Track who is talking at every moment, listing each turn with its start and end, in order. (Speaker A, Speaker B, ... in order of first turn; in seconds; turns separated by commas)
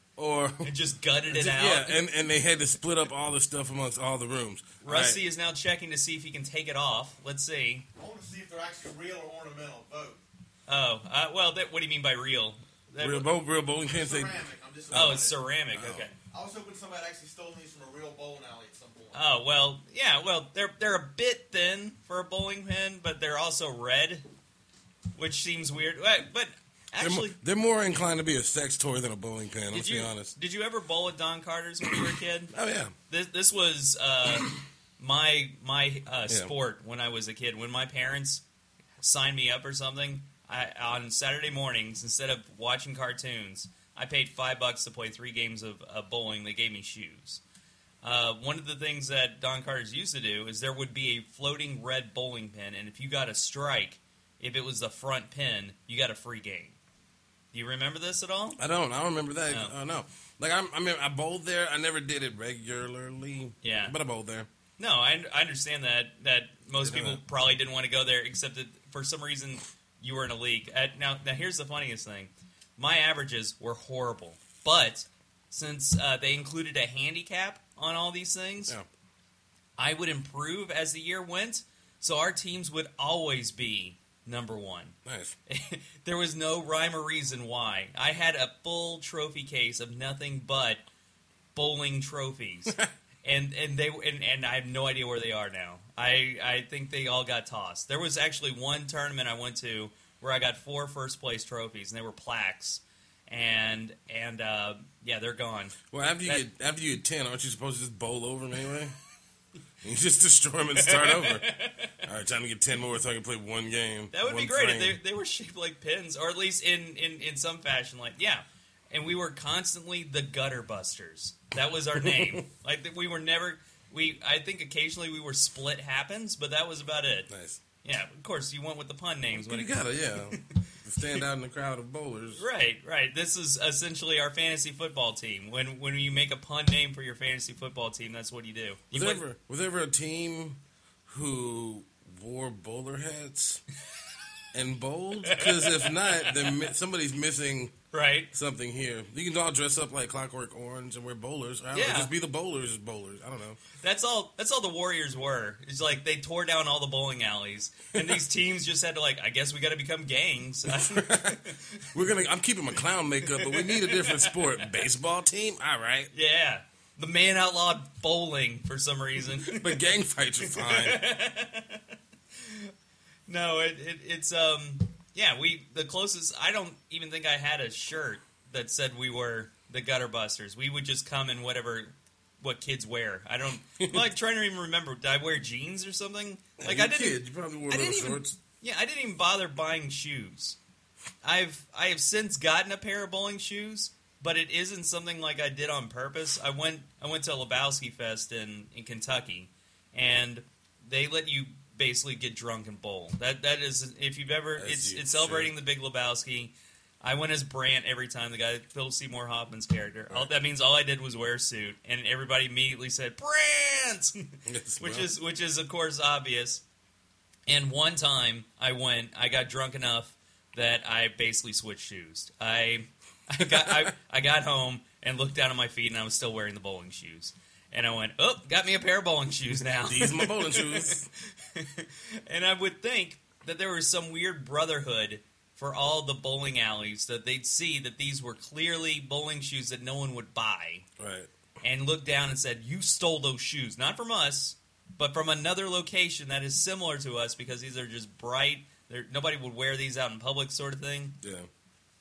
Speaker A: 0.2-0.7, Speaker B: 0.6-2.0, Speaker A: 1.3-5.2, Speaker B: 4.8-7.9, Speaker C: 8.0-10.2, Speaker B: 10.7-13.3, Speaker A: 13.0-16.1, Speaker C: 14.0-15.3, Speaker B: 14.9-16.1, Speaker C: 16.3-19.2, Speaker B: 19.1-24.2, Speaker B: 25.1-27.4, Speaker A: 27.0-30.4, Speaker B: 29.7-32.5, Speaker A: 32.5-32.9, Speaker B: 33.1-38.4, Speaker B: 39.0-47.4, Speaker B: 48.0-56.8, Speaker B: 57.5-58.6, Speaker A: 58.6-64.5, Speaker B: 59.5-59.8, Speaker B: 63.6-64.0, Speaker B: 64.8-78.8, Speaker A: 66.8-67.2, Speaker B: 79.8-85.0, Speaker A: 85.0-85.4, Speaker B: 85.5-90.8, Speaker B: 91.5-106.5, Speaker A: 105.9-109.0, Speaker A: 109.8-111.5, Speaker B: 110.8-112.0, Speaker A: 112.0-115.0, Speaker B: 114.1-127.3, Speaker A: 122.0-122.4, Speaker A: 127.3-127.6, Speaker B: 127.8-131.2, Speaker A: 129.3-132.4, Speaker B: 132.4-139.2, Speaker A: 138.9-143.6, Speaker A: 144.5-147.7, Speaker B: 145.3-146.6, Speaker B: 147.9-148.3, Speaker A: 148.3-153.6, Speaker B: 151.7-152.1, Speaker B: 153.8-161.9, Speaker A: 160.7-166.1, Speaker B: 163.2-164.8, Speaker B: 166.1-169.8, Speaker A: 169.3-171.0, Speaker B: 170.4-172.7, Speaker B: 173.3-190.6, Speaker A: 183.8-184.1, Speaker A: 186.6-188.4, Speaker B: 191.2-214.1, Speaker A: 204.6-205.5, Speaker A: 214.5-215.1, Speaker B: 214.8-216.6, Speaker B: 217.5-240.8, Speaker A: 223.4-223.9, Speaker A: 229.8-231.1, Speaker A: 241.0-241.3, Speaker B: 241.6-251.2, Speaker A: 251.2-251.5